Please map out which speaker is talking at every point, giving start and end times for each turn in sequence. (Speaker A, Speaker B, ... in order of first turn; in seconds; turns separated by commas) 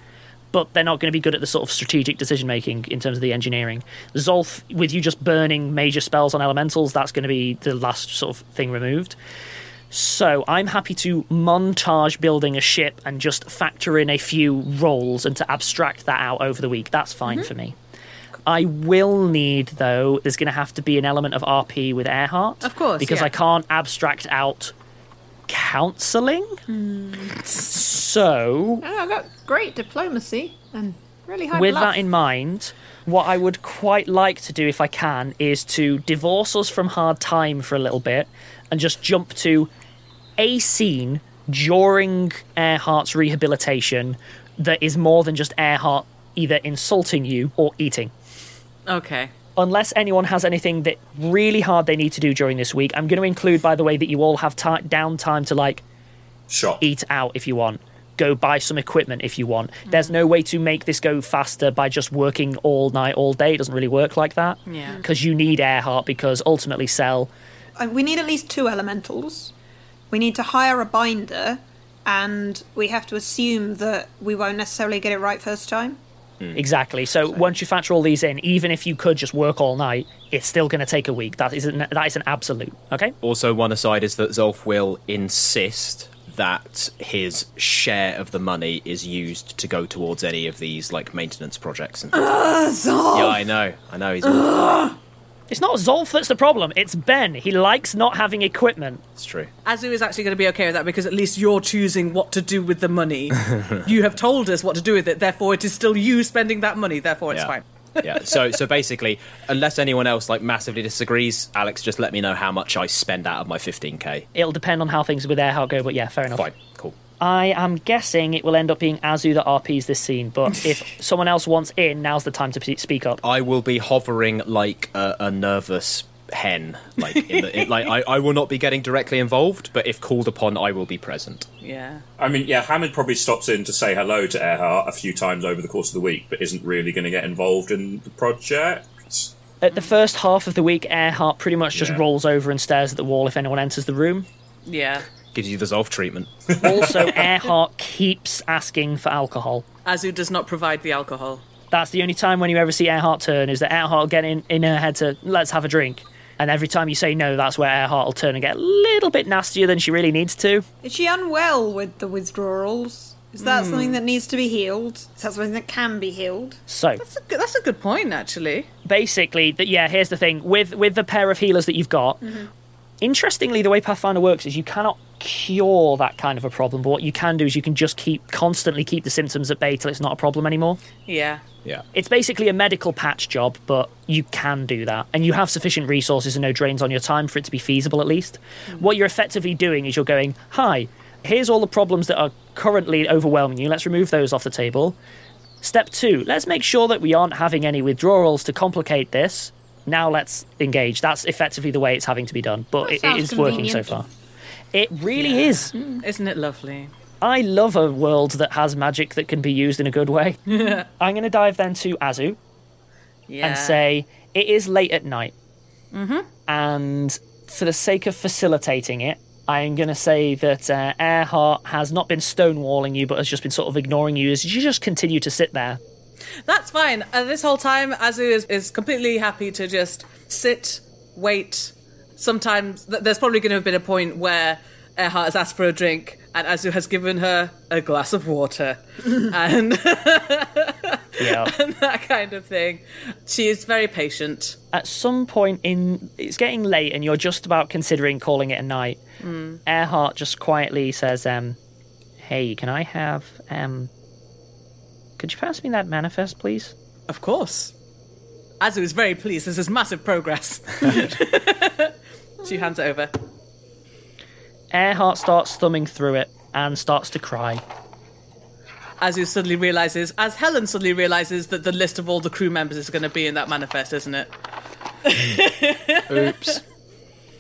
Speaker A: 0.5-9.2, Speaker A: 9.9-17.8, Speaker A: 18.5-24.7, Speaker B: 22.6-23.3, Speaker A: 25.5-26.6, Speaker C: 26.7-27.4, Speaker A: 27.6-28.9, Speaker C: 28.8-32.0, Speaker A: 31.5-39.7, Speaker A: 40.4-48.1, Speaker B: 48.9-49.3, Speaker A: 49.6-55.8, Speaker D: 56.5-56.8, Speaker A: 56.8-67.3, Speaker B: 64.7-65.0, Speaker C: 67.8-69.5, Speaker C: 70.1-76.0, Speaker A: 76.5-83.2, Speaker E: 83.2-92.4, Speaker C: 92.1-93.5, Speaker E: 93.1-94.6, Speaker C: 94.2-95.0, Speaker A: 95.5-99.0, Speaker E: 99.2-99.5, Speaker B: 99.7-108.6, Speaker E: 107.3-114.3, Speaker A: 114.3-116.5, Speaker E: 116.3-117.0, Speaker A: 117.2-123.2, Speaker E: 123.2-131.5, Speaker B: 127.0-127.9, Speaker B: 131.6-132.1, Speaker D: 132.2-139.3, Speaker A: 139.6-144.3, Speaker E: 141.8-142.0, Speaker B: 144.7-145.1, Speaker E: 145.3-146.5, Speaker A: 146.6-149.7, Speaker B: 149.8-151.4, Speaker A: 151.7-160.7, Speaker C: 160.8-166.6, Speaker B: 163.4-164.0, Speaker A: 166.7-167.0, Speaker B: 167.0-168.7, Speaker A: 168.8-172.3, Speaker C: 172.2-172.5, Speaker A: 173.0-180.8, Speaker B: 181.1-181.4, Speaker A: 181.9-195.0, Speaker A: 195.6-204.1, Speaker C: 202.8-203.9, Speaker A: 204.7-205.7, Speaker B: 205.2-206.9, Speaker C: 205.8-206.0, Speaker A: 207.2-210.4, Speaker B: 210.5-210.9, Speaker A: 211.0-212.4, Speaker B: 213.3-213.8, Speaker A: 213.4-215.3, Speaker B: 215.9-216.3, Speaker A: 216.5-225.8, Speaker B: 226.4-244.6, Speaker A: 241.2-241.5, Speaker A: 244.7-249.0, Speaker B: 249.2-249.6, Speaker A: 249.7-251.6, Speaker A: 252.2-253.9, Speaker A: 255.2-256.7, Speaker B: 257.1-257.7, Speaker B: 258.6-263.1, Speaker A: 264.7-267.6, Speaker B: 269.0-274.3, Speaker B: 275.1-276.6, Speaker E: 276.1-276.6